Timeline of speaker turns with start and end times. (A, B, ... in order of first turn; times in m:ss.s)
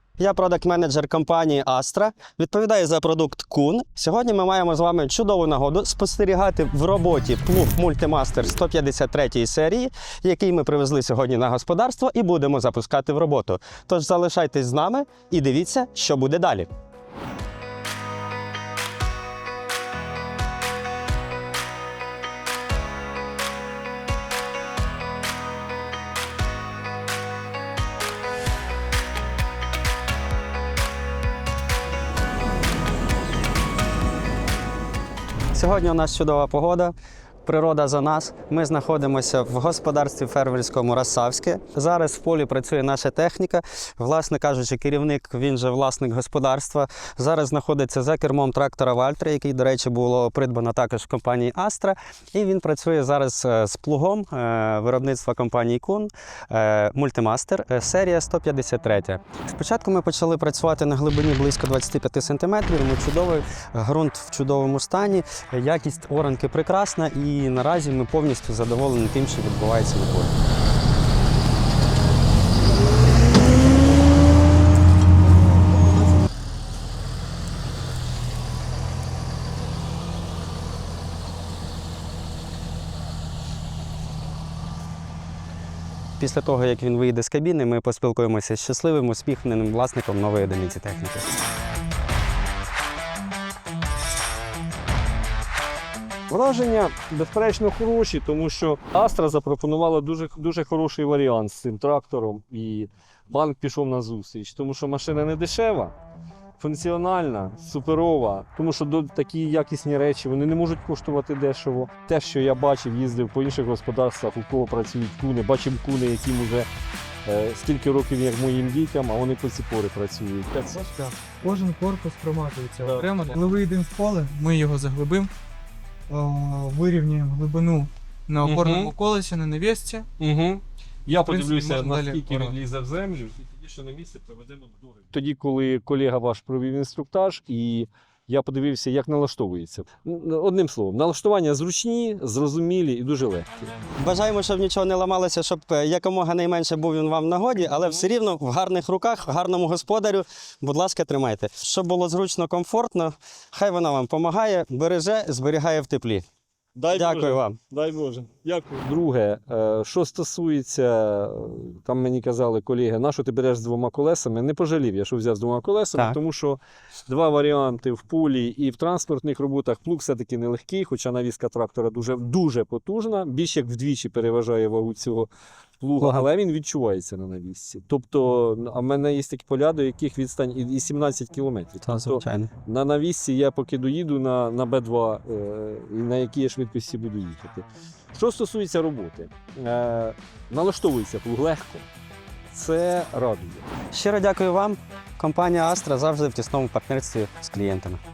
0:00.2-0:16.7 A
0:35.5-0:36.9 A
0:37.4-1:10.4 A
1:26.2-1:31.2 A
1:36.3-1:45.9 B
1:46.6-1:56.7 B
1:57.2-2:00.9 B
2:00.8-2:05.3 C
2:02.8-2:03.4 B
2:06.1-2:10.1 C
2:08.4-2:08.9 B
2:10.2-2:23.7 B
2:11.2-2:12.6 C
2:24.0-2:36.2 A
2:36.8-3:11.9 B
2:36.9-2:37.6 A
2:56.0-2:56.3 A
3:01.8-3:02.5 A
3:12.5-3:13.7 B
3:13.9-3:18.0 A